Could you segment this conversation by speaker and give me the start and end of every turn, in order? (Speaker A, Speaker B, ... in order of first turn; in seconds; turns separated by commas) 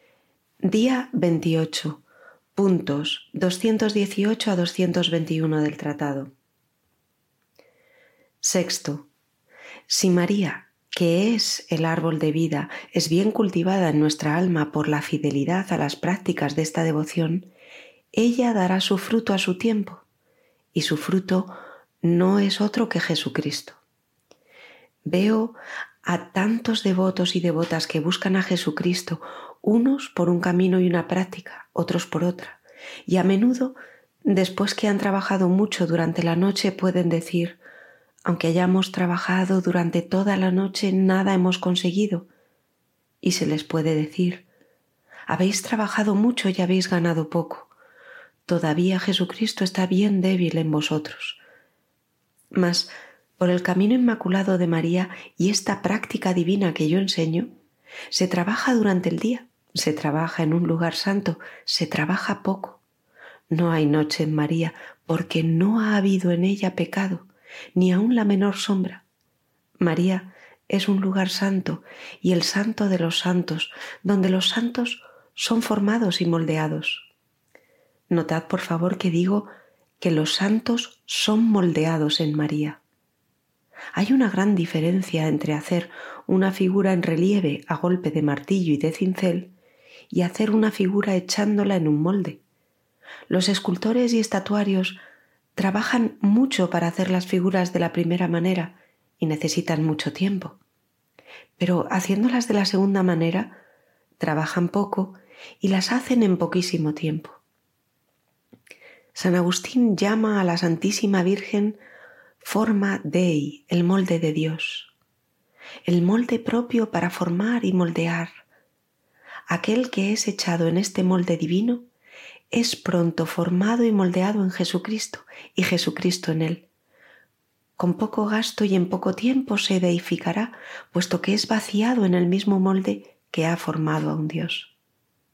Speaker A: 0.6-2.0, Speaker A: 2.5-6.3, Speaker A: 8.4-9.1, Speaker A: 9.9-17.5, Speaker A: 18.1-20.0, Speaker A: 20.7-23.8, Speaker A: 25.0-37.6, Speaker A: 38.2-42.3, Speaker A: 43.2-44.4, Speaker A: 45.3-47.7, Speaker A: 48.5-51.4, Speaker A: 52.5-57.5, Speaker A: 58.1-62.8, Speaker A: 63.5-69.0, Speaker A: 69.8-77.1, Speaker A: 78.1-82.8, Speaker A: 83.9-89.5, Speaker A: 90.1-92.4, Speaker A: 93.3-95.0, Speaker A: 95.5-100.6, Speaker A: 101.6-103.6, Speaker A: 104.2-107.4, Speaker A: 109.1-111.8, Speaker A: 112.4-114.9, Speaker A: 115.8-118.3, Speaker A: 119.5-121.8, Speaker A: 122.5-126.7, Speaker A: 127.8-134.7